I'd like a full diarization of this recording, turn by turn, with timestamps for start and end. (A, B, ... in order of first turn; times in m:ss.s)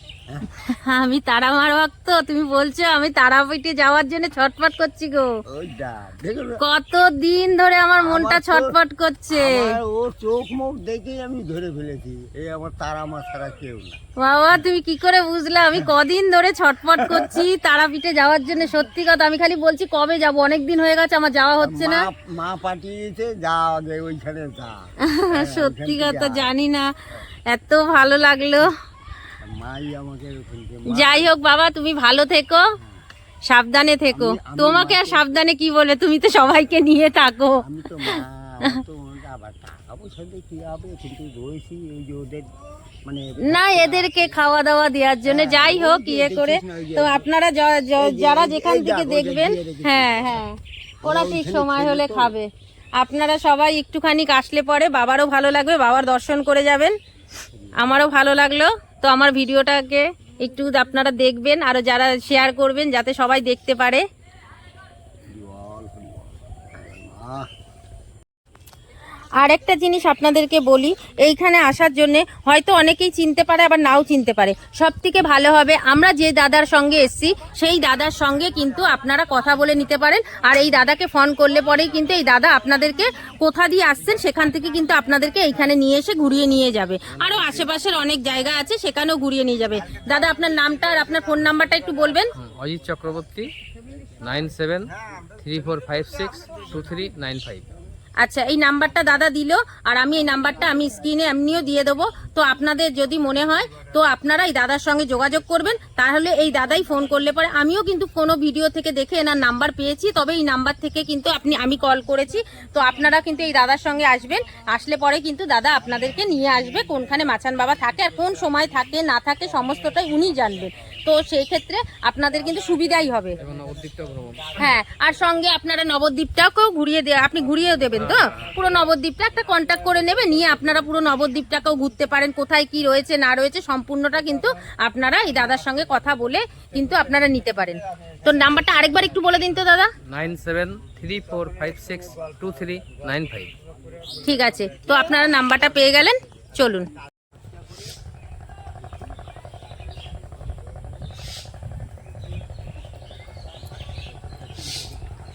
0:00.3-0:00.6 A
0:00.7-0:05.4 B
0:05.5-0:06.6 A
0:06.6-0:09.8 B
0:08.0-0:08.8 A
0:09.3-0:14.0 A
0:14.2-0:22.1 B
0:17.0-0:17.4 A
0:21.6-0:26.5 A
0:25.0-0:27.0 B
0:27.5-0:28.7 B
0:29.4-0:31.3 A
0:30.9-0:32.7 B
0:32.8-0:33.0 A
0:33.5-0:38.8 B
0:34.1-0:35.4 A
0:37.6-0:42.5 A
0:43.0-0:44.4 A
0:43.4-0:57.0 B
0:45.2-0:47.3 A
0:48.0-0:50.4 A
0:51.0-0:52.3 A
0:57.5-0:58.0 A
0:57.8-1:04.0 B
1:05.3-1:07.5 A
1:09.4-1:32.3 B
1:27.1-1:27.8 A
1:29.7-1:33.2 A
1:32.4-1:33.5 C
1:34.0-1:36.7 A
1:34.2-1:37.6 C
1:38.2-2:03.4 B
2:02.8-2:04.8 A
2:03.4-2:04.5 C
2:04.6-2:19.9 B
2:07.8-2:08.5 A
2:17.9-2:19.0 A
2:20.0-2:23.5 C
2:20.8-2:24.9 A
2:24.2-2:26.9 B
2:27.2-2:27.9 A
2:29.9-2:31.0 A
2:34.2-2:35.1 A